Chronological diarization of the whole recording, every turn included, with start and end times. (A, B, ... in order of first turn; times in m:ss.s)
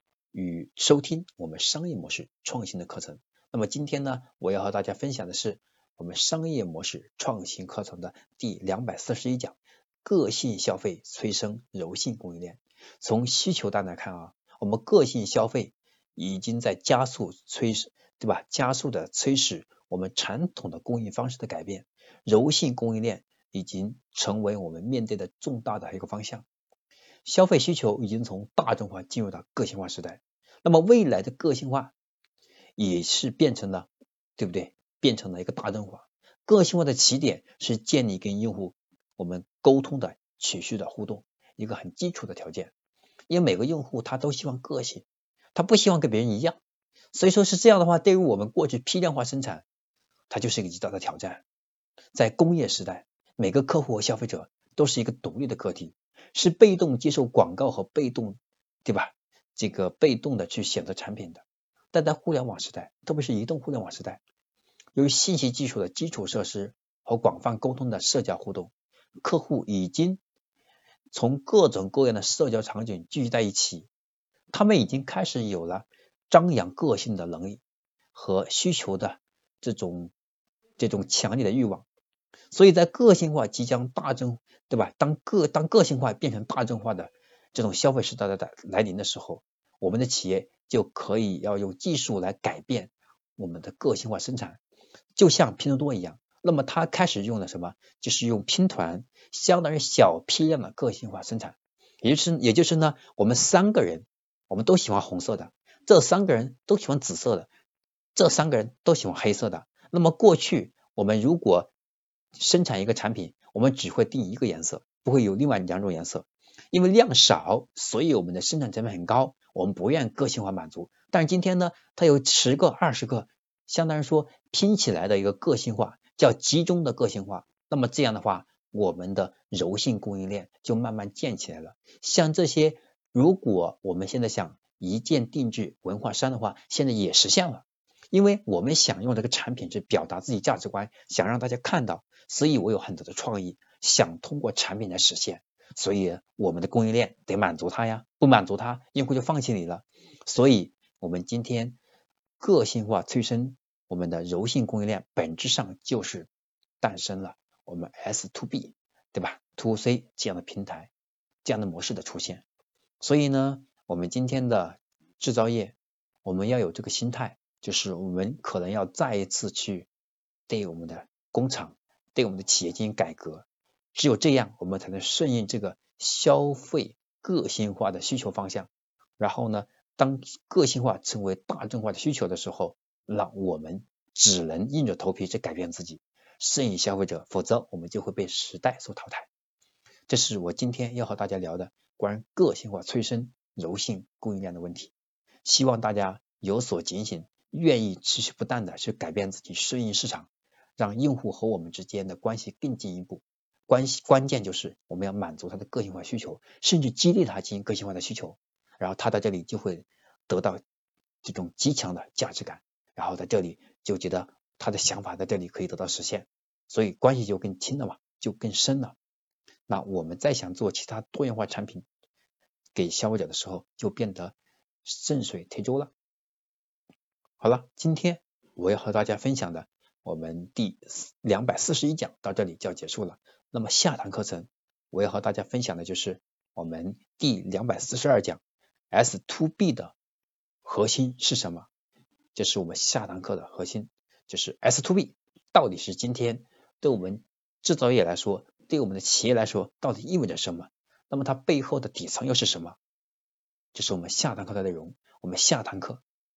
0:00.3-0:26.4 A
0:27.2-0:31.9 A
0:32.8-0:42.7 A
0:43.3-0:46.6 A
0:47.1-0:49.6 A
0:50.3-0:51.4 A
0:52.1-1:04.2 A
1:04.9-1:10.2 A
1:11.1-1:13.9 A
1:14.5-1:17.6 A
1:18.1-1:20.1 A
1:20.8-1:21.8 A
1:22.5-1:34.6 A
1:35.2-1:47.5 A
1:48.1-1:51.7 A
1:52.4-2:31.8 A
2:32.4-2:36.3 A
2:36.8-2:40.9 A
2:41.4-2:42.4 A
2:43.0-2:49.9 A
2:50.5-3:09.3 A
3:10.1-3:14.9 A
3:15.4-3:30.6 A
3:31.2-3:38.9 A
3:39.7-3:41.8 A
3:42.7-3:45.9 A
3:47.4-3:59.9 A
4:00.6-4:01.7 A
4:02.3-4:12.8 A
4:13.7-4:16.0 A